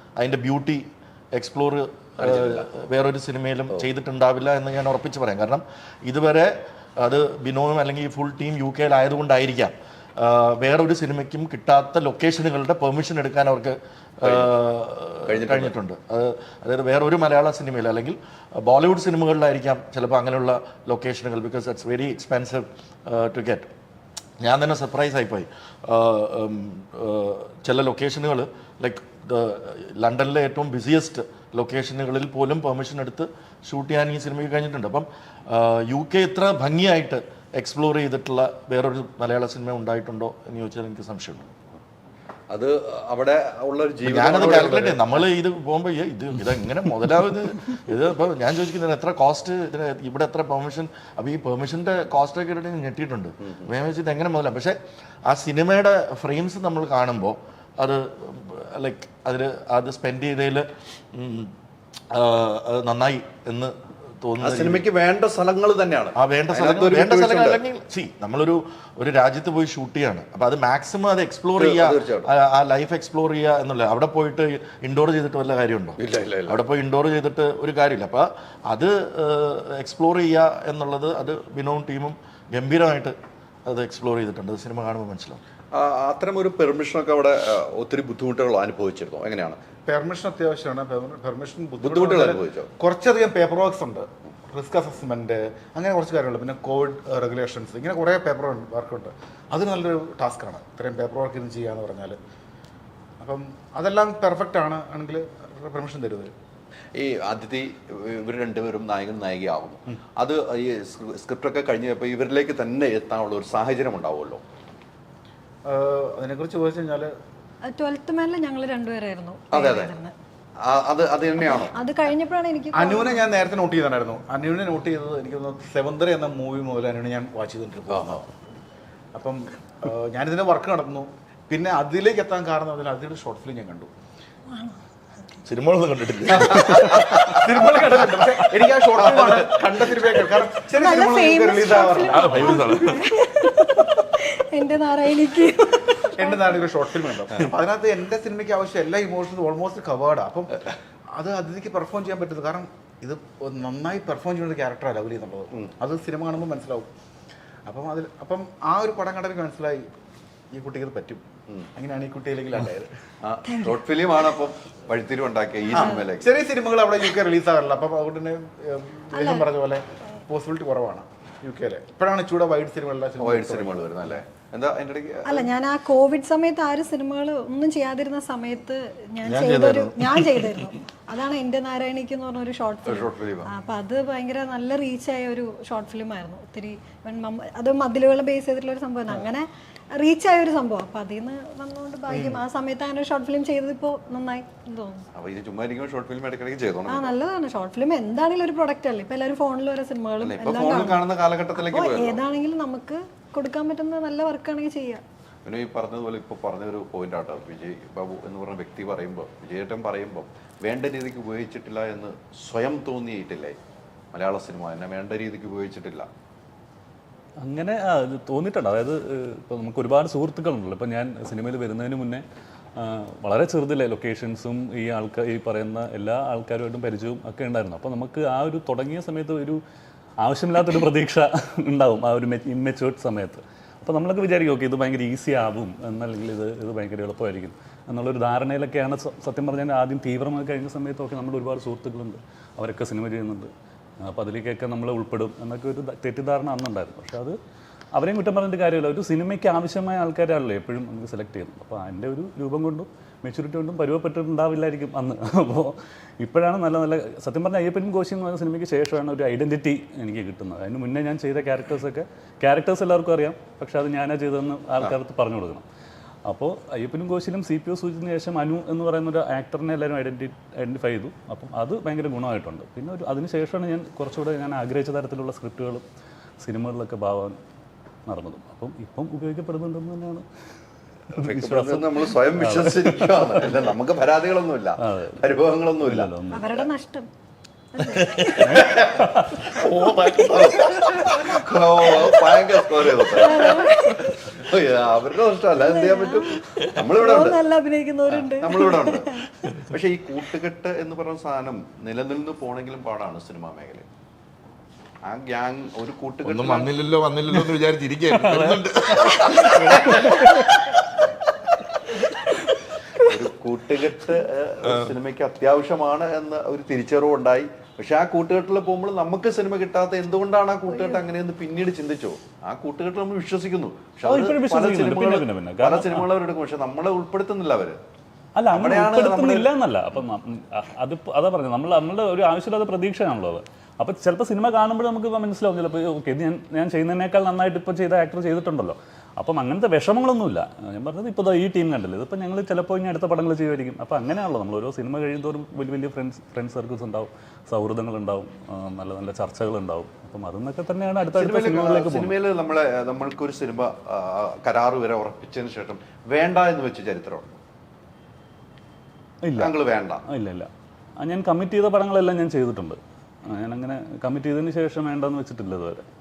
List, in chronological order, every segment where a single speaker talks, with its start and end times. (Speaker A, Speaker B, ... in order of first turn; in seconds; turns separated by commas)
Speaker A: 0.2-23.7, Speaker B: 2.2-2.7, Speaker B: 14.2-14.5, Speaker B: 15.2-15.8, Speaker A: 24.4-41.5, Speaker B: 42.5-45.3, Speaker A: 44.0-61.5, Speaker B: 53.4-53.7, Speaker A: 62.1-64.9, Speaker B: 64.4-67.6, Speaker A: 66.2-85.4, Speaker B: 71.5-72.3, Speaker B: 76.0-76.6, Speaker B: 85.7-89.6, Speaker C: 89.9-102.2, Speaker B: 91.8-92.7, Speaker C: 103.2-106.3, Speaker B: 107.0-114.4, Speaker C: 115.7-117.1, Speaker D: 117.7-120.1, Speaker B: 119.5-120.0, Speaker B: 120.6-121.8, Speaker D: 121.4-123.2, Speaker C: 122.7-128.3, Speaker B: 127.9-128.2, Speaker C: 129.1-133.9, Speaker D: 134.5-134.8, Speaker A: 135.4-137.2, Speaker B: 136.6-137.4, Speaker C: 137.3-142.6, Speaker B: 139.0-139.7, Speaker D: 140.8-146.6, Speaker A: 142.1-143.1, Speaker C: 146.2-156.9, Speaker C: 157.7-159.9, Speaker C: 160.5-161.2, Speaker C: 161.8-162.9, Speaker B: 163.2-166.3, Speaker D: 163.5-163.8, Speaker C: 165.7-174.2, Speaker D: 165.8-166.0, Speaker D: 169.1-169.5, Speaker B: 173.2-175.5, Speaker D: 175.2-195.1, Speaker A: 179.2-180.6, Speaker B: 182.9-183.5, Speaker B: 195.2-197.2, Speaker D: 196.9-205.0, Speaker B: 200.2-202.2, Speaker B: 205.4-213.6, Speaker B: 214.1-216.1, Speaker E: 217.4-222.2, Speaker E: 222.8-229.6, Speaker E: 230.2-247.4, Speaker E: 247.9-265.6, Speaker E: 266.3-275.8, Speaker E: 276.4-277.4, Speaker E: 278.1-280.2, Speaker E: 281.1-283.5, Speaker B: 281.2-286.6, Speaker E: 284.8-285.2, Speaker E: 285.8-286.5, Speaker D: 286.3-287.1, Speaker D: 287.7-288.7, Speaker B: 288.4-297.4, Speaker E: 288.5-289.5, Speaker A: 289.6-291.4, Speaker D: 293.1-294.4, Speaker D: 295.6-299.3, Speaker B: 298.1-303.9, Speaker B: 305.1-306.7, Speaker A: 306.2-310.7, Speaker E: 308.2-310.5, Speaker B: 309.5-309.9, Speaker B: 313.1-327.8, Speaker D: 320.7-321.0, Speaker E: 324.0-326.1, Speaker E: 328.4-352.2, Speaker B: 328.5-329.5, Speaker B: 351.1-357.4, Speaker E: 359.2-360.5, Speaker B: 359.4-360.0, Speaker E: 361.0-365.8